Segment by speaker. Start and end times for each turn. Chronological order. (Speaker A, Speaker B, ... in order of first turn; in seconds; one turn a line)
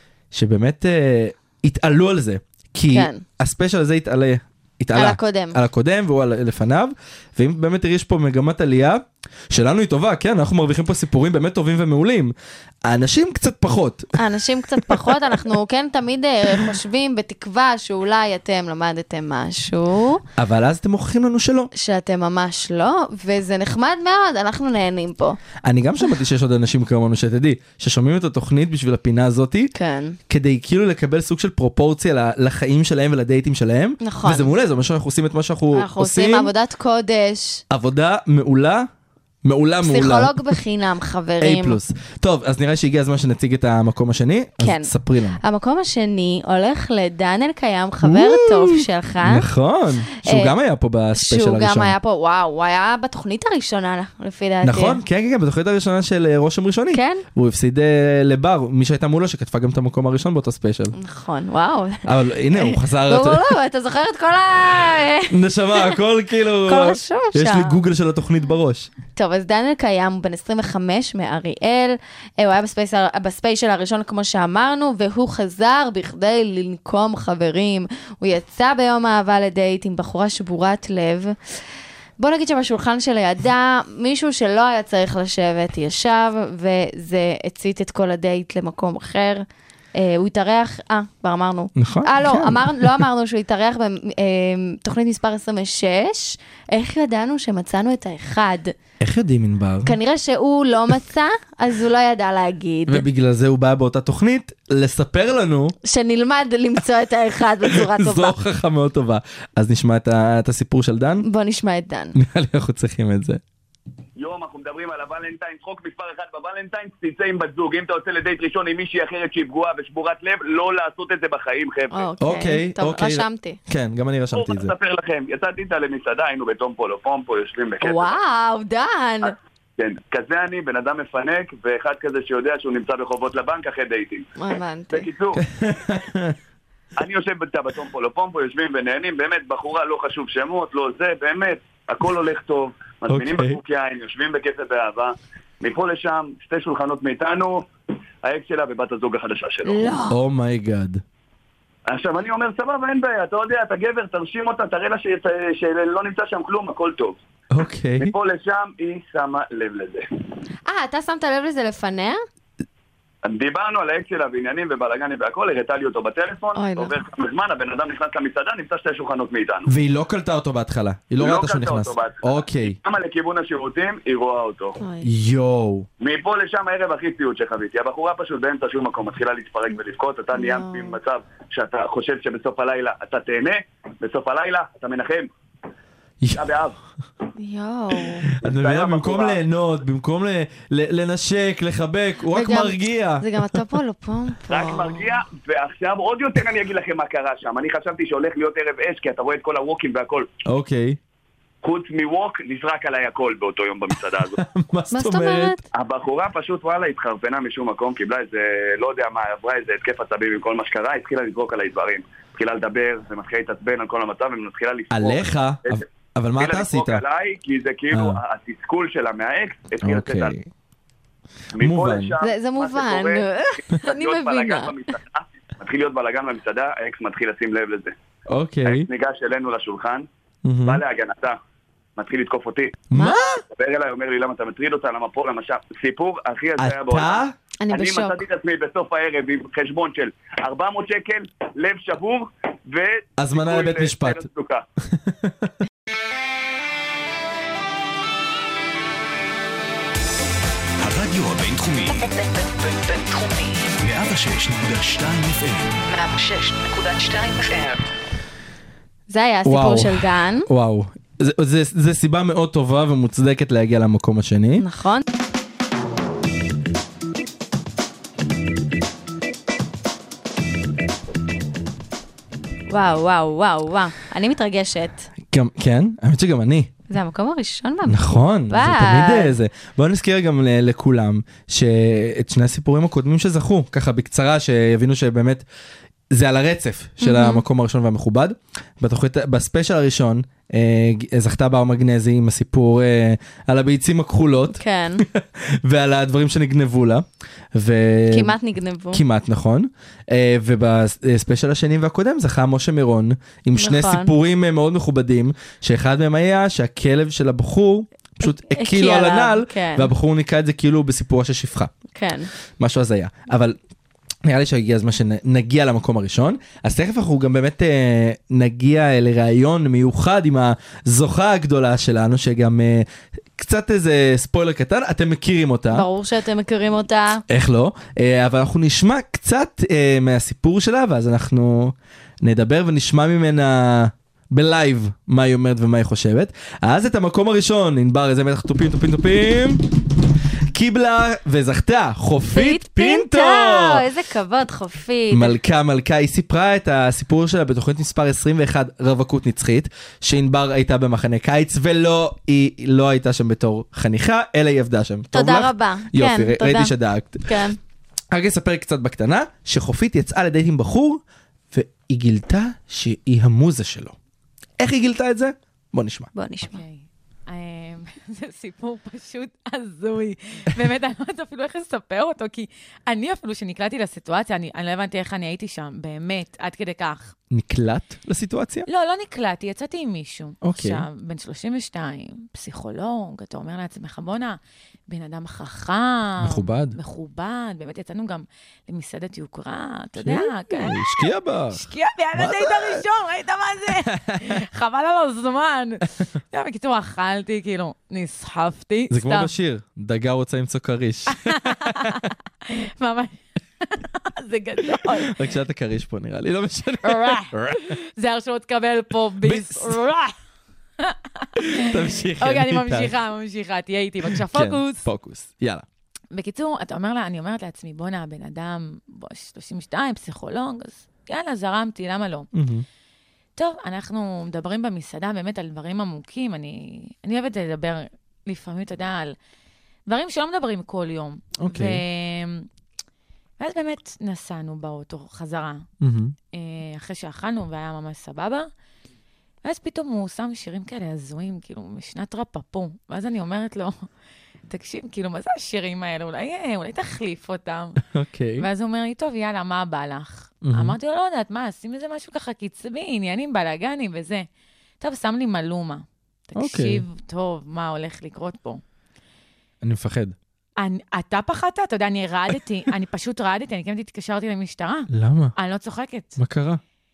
Speaker A: 0.3-12.3
Speaker B: 2.9-3.2
Speaker B: 5.0-5.6
Speaker A: 12.8-14.2
Speaker B: 14.2-20.2
Speaker A: 14.8-15.1
Speaker A: 20.4-21.7
Speaker B: 21.7-25.4
Speaker A: 25.6-29.7
Speaker B: 29.8-30.2
Speaker A: 30.3-36.5
Speaker B: 34.0-34.5
Speaker B: 35.7-37.6
Speaker A: 37.7-38.9
Speaker A: 39.4-40.4
Speaker B: 39.8-41.8
Speaker A: 41.4-45.4
Speaker B: 44.6-44.9
Speaker B: 45.4-49.5
Speaker A: 48.0-52.0
Speaker B: 50.1-50.5
Speaker B: 51.1-55.0
Speaker A: 54.6-61.0
Speaker B: 56.9-57.2
Speaker B: 61.0-66.0
Speaker A: 62.0-63.5
Speaker A: 65.3-68.9
Speaker B: 66.7-67.8
Speaker B: 69.2-81.4
Speaker B: 82.2-89.5
Speaker B: 90.0-98.7
Speaker A: 91.8-93.0
Speaker A: 99.0-99.9
Speaker B: 99.8-103.0
Speaker A: 102.9-105.8
Speaker B: 105.8-108.4
Speaker A: 107.7-111.2
Speaker B: 111.2-112.2
Speaker A: 112.2-113.4
Speaker C: 114.2-122.1
Speaker B: 121.9-123.6
Speaker A: 122.2-124.7
Speaker C: 124.3-128.2
Speaker B: 127.8-129.3
Speaker C: 129.2-134.3
Speaker B: 134.4-135.1
Speaker C: 134.9-135.4
Speaker A: 135.4-136.4
Speaker C: 137.0-147.7
Speaker A: 143.1-143.6
Speaker C: 148.2-150.0
Speaker B: 149.7-150.1
Speaker A: 150.1-151.0
Speaker C: 151.9-157.2
Speaker A: 157.5-158.1
Speaker C: 158.0-160.1
Speaker B: 160.7-162.2
Speaker C: 163.2-169.7
Speaker B: 166.6-167.0
Speaker A: 169.7-172.8
Speaker C: 171.2-174.8
Speaker B: 174.8-175.1
Speaker A: 175.0-175.9
Speaker C: 176.0-185.3
Speaker B: 180.3-181.0
Speaker A: 186.2-186.5
Speaker C: 186.3-186.8
Speaker B: 187.4-188.3
Speaker A: 188.3-193.6
Speaker C: 188.4-189.4
Speaker B: 192.3-195.2
Speaker C: 194.5-200.3
Speaker A: 200.5-201.0
Speaker C: 201.6-204.4
Speaker A: 204.3-205.6
Speaker B: 204.9-205.6
Speaker C: 205.7-215.8
Speaker A: 214.9-217.0
Speaker C: 216.4-220.4
Speaker A: 217.9-218.2
Speaker A: 219.8-220.5
Speaker C: 221.6-228.0
Speaker A: 221.6-222.1
Speaker B: 222.2-224.7
Speaker A: 228.3-228.9
Speaker C: 228.7-230.1
Speaker A: 230.4-230.8
Speaker C: 230.7-231.4
Speaker C: 232.0-232.8
Speaker A: 232.9-233.4
Speaker B: 232.9-233.4
Speaker C: 233.4-244.6
Speaker A: 236.6-237.3
Speaker B: 237.6-238.2
Speaker A: 243.2-244.2
Speaker A: 244.9-245.5
Speaker D: 250.8-252.1
Speaker E: 251.9-253.7
Speaker D: 253.8-255.8
Speaker E: 255.9-257.9
Speaker B: 259.1-260.5
Speaker A: 259.4-264.6
Speaker B: 264.6-265.0
Speaker B: 272.7-275.1
Speaker A: 275.3-276.7
Speaker B: 276.9-279.4
Speaker A: 277.9-285.4
Speaker A: 286.1-298.4
Speaker B: 287.0-287.4
Speaker B: 294.5-295.1
Speaker B: 298.1-299.0
Speaker A: 298.9-311.7
Speaker B: 303.6-304.1
Speaker B: 308.2-309.9
Speaker B: 311.9-312.3
Speaker A: 312.6-313.6
Speaker A: 314.3-325.9
Speaker B: 325.7-327.2
Speaker A: 327.3-339.7
Speaker A: 340.5-343.9
Speaker B: 342.3-345.4
Speaker A: 345.1-357.4
Speaker B: 355.1-356.7
Speaker B: 357.2-357.6
Speaker A: 358.1-364.0
Speaker A: 364.6-366.1
Speaker B: 366.1-366.6
Speaker F: 366.5-377.1
Speaker A: 377.3-378.7
Speaker F: 378.7-399.3
Speaker A: 380.4-380.9
Speaker A: 386.2-386.8
Speaker A: 390.0-392.9
Speaker A: 393.8-394.4
Speaker A: 398.9-402.0
Speaker F: 401.1-405.2
Speaker A: 404.7-407.8
Speaker F: 406.8-410.1
Speaker A: 409.2-409.8
Speaker F: 410.8-414.9
Speaker A: 411.4-413.0
Speaker A: 414.0-415.7
Speaker F: 416.1-422.3
Speaker A: 422.3-422.7
Speaker F: 423.4-429.1
Speaker F: 429.9-432.5
Speaker A: 431.4-431.8
Speaker F: 433.4-435.6
Speaker A: 435.8-436.1
Speaker F: 436.3-438.5
Speaker F: 439.4-443.9
Speaker F: 444.5-447.8
Speaker A: 447.9-448.5
Speaker F: 448.4-454.3
Speaker A: 450.4-450.8
Speaker F: 454.8-458.6
Speaker A: 456.4-456.8
Speaker A: 459.6-460.2
Speaker F: 460.6-466.2
Speaker A: 464.9-465.4
Speaker A: 466.2-466.6